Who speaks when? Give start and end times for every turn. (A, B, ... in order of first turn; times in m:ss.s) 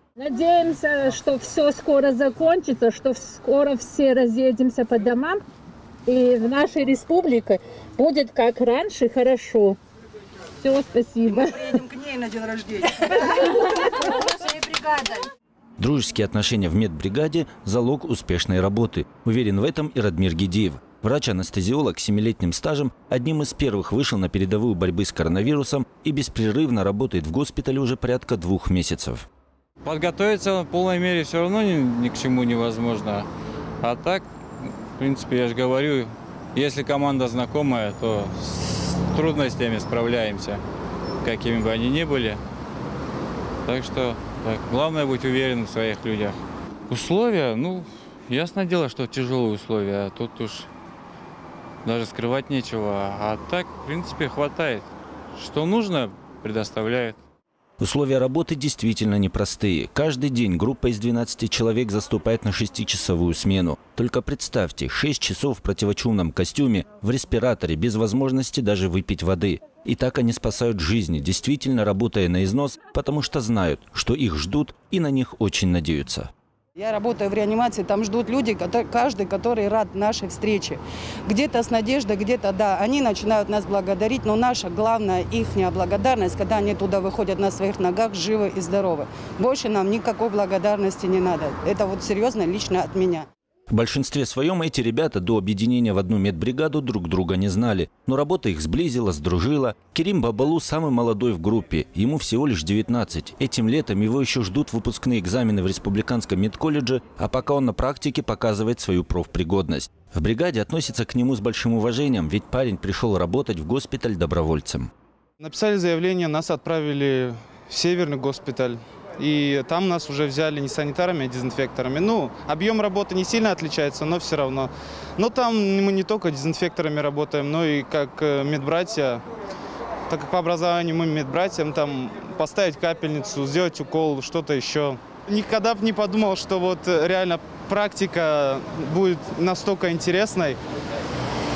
0:00.2-0:05.4 A
0:06.1-0:09.8 A
0:10.6-0:11.8 A
0:11.3-0:13.4 B
0:14.2-0:15.2 B
0:15.8-0:29.3 C
0:29.8-0:33.3 D
0:33.8-0:40.6 D
0:41.2-0:42.4 D
0:43.6-0:46.4 D
0:46.9-0:50.7 D
0:51.8-0:57.2 D
0:57.8-1:16.3 C
1:16.8-1:33.3 B
1:33.7-1:54.9 C
1:55.4-2:09.2 E
2:10.1-2:20.6 E